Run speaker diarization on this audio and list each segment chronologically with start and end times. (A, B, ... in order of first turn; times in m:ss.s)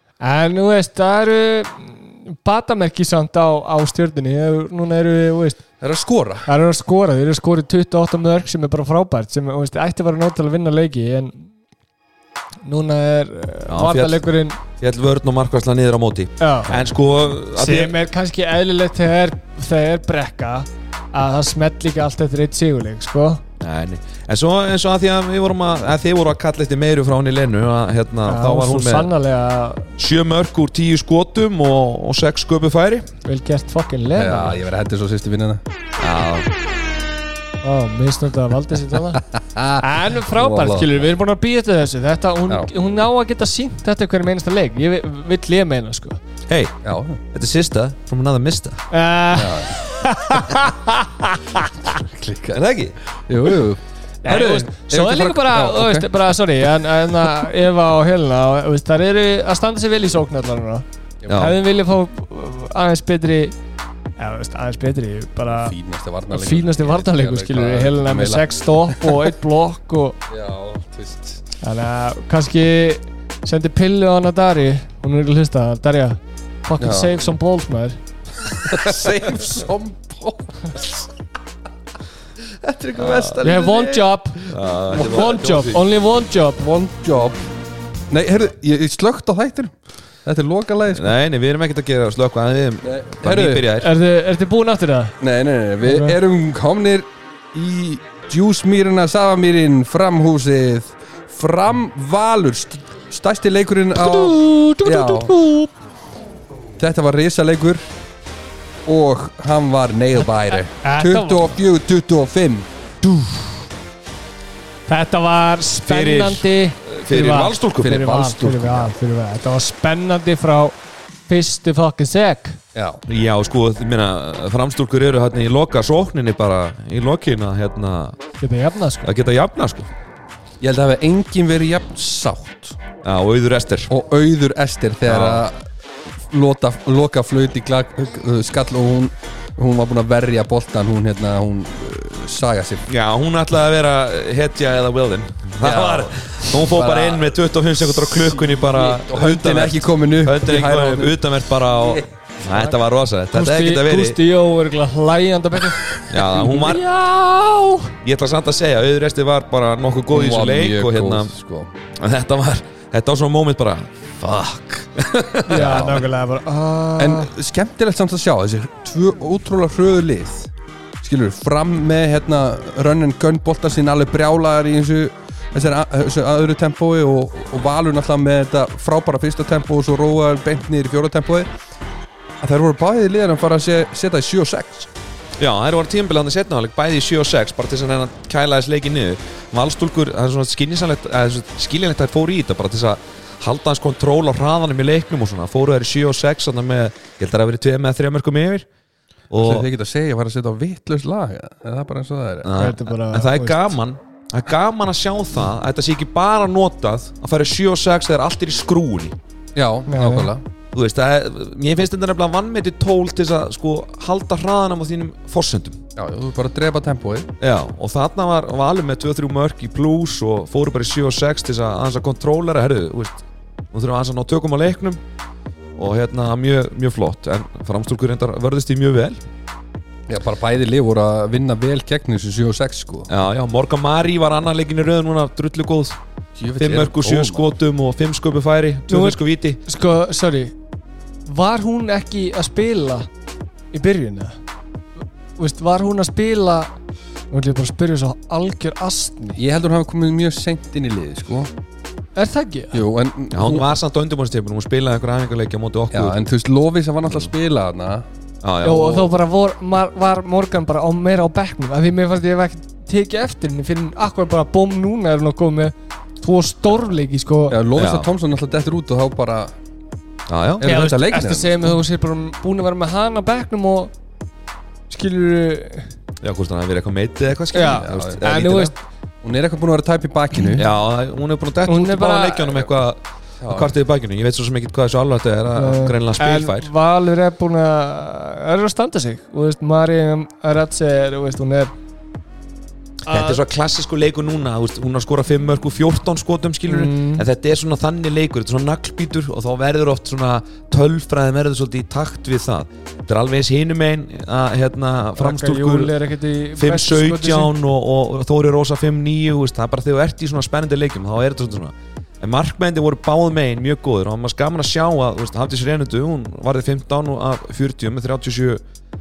0:00.2-0:05.6 A
0:05.8-0:06.5 B
0:06.4-0:11.5 A
0:12.6-0:14.6 A
0:13.7-0:14.2 C
0:14.8-0:17.9 C
0:16.4-0:16.8 A
0:17.6-0:23.4 A
0:23.6-0:29.1 C
0:28.3-0:29.9 A
0:30.0-0:33.1 C
0:33.2-0:34.6 A
0:34.1-0:35.6 B
0:36.0-0:36.5 C
0:37.6-0:39.2 A
0:39.3-0:41.1 B
0:39.8-0:46.2 A
0:46.5-0:46.8 C
0:46.8-0:47.2 B
0:47.3-0:48.8 C
0:48.9-0:51.7 A
0:49.3-0:49.7 B
0:51.9-0:52.6 B
0:52.5-0:53.0 C
0:53.1-0:56.1 B
0:54.2-1:03.6 A
1:01.3-1:01.6 C
1:04.2-1:05.7 A
1:05.5-1:09.3 B
1:06.3-1:10.2 A
1:10.3-1:11.4 B
1:11.6-1:18.0 A
1:16.8-1:17.1 B
1:18.6-1:21.1 B
1:18.7-1:19.6 A
1:22.4-1:25.7 B
1:23.0-1:23.3 C
1:23.4-1:26.7 A
1:24.5-1:25.8 C
1:26.6-1:27.4 B
1:28.1-1:31.1 B
1:30.9-1:33.9 C
1:32.8-1:33.7 B
1:33.8-1:35.2 A
1:35.2-1:45.4 B
1:35.8-1:36.2 A
1:44.0-1:45.7 A
1:46.8-1:47.8 B
1:48.9-1:52.7 B
1:50.8-1:51.6 A
1:53.1-1:53.5 A
1:54.9-2:00.8 A
1:55.8-1:58.0 C
1:57.8-1:58.9 B
2:01.3-2:02.6 A
2:02.7-2:03.0 B
2:03.0-2:08.2 C
2:08.4-2:09.1 A
2:09.0-2:09.9 C
2:10.6-2:12.8 B
2:13.0-2:13.9 C
2:13.9-2:15.6 B
2:15.0-2:15.4 C
2:16.3-2:22.9 B
2:22.9-2:34.2 C
2:25.6-2:32.0 B
2:32.5-2:32.7 A
2:33.3-2:37.9 A
2:36.1-2:36.8 C
2:38.0-2:41.3 C
2:40.1-2:41.7 B
2:42.0-2:46.0 C
2:45.5-2:47.3 A
2:45.5-2:46.0 B
2:47.0-3:01.5 B
3:02.4-3:04.9 B
3:05.4-3:18.7 C
3:19.3-3:19.7 C
3:19.4-3:22.6 B
3:22.4-3:29.2 C
3:22.5-3:23.8 A
3:29.5-3:30.4 B
3:29.9-3:30.3 A
3:30.7-3:35.8 C
3:36.0-3:37.3 B
3:37.4-3:45.0 C
3:45.8-3:49.2 C
3:50.1-3:53.1 B
3:53.1-3:56.0 C
3:56.4-3:57.5 B
3:56.6-3:59.6 C
3:58.9-4:00.5 A
4:01.2-4:03.1 A
4:03.7-4:04.3 A
4:05.4-4:06.7 A
4:07.3-4:09.4 A
4:09.4-4:11.5 B
4:12.1-4:12.8 A
4:12.7-4:13.7 B
4:13.3-4:16.2 C
4:15.9-4:18.0 B
4:18.4-4:19.1 C
4:18.6-4:27.6 A
4:27.5-4:29.6 B
4:27.8-4:28.1 C
4:30.3-4:30.7 C
4:30.6-4:31.8 B
4:30.6-4:33.9 A
4:34.9-4:35.9 A
4:36.2-4:38.7 C
4:37.5-4:38.7 A
4:37.7-4:38.2 B
4:39.2-4:40.6 B
4:40.6-4:46.7 C
4:41.6-4:42.7 A
4:43.4-4:43.7 B
4:45.6-4:51.7 A
4:53.0-4:53.4 A
4:53.1-5:05.9 C
4:56.7-4:57.2 A
5:05.2-5:07.5 A
5:06.6-5:18.6 C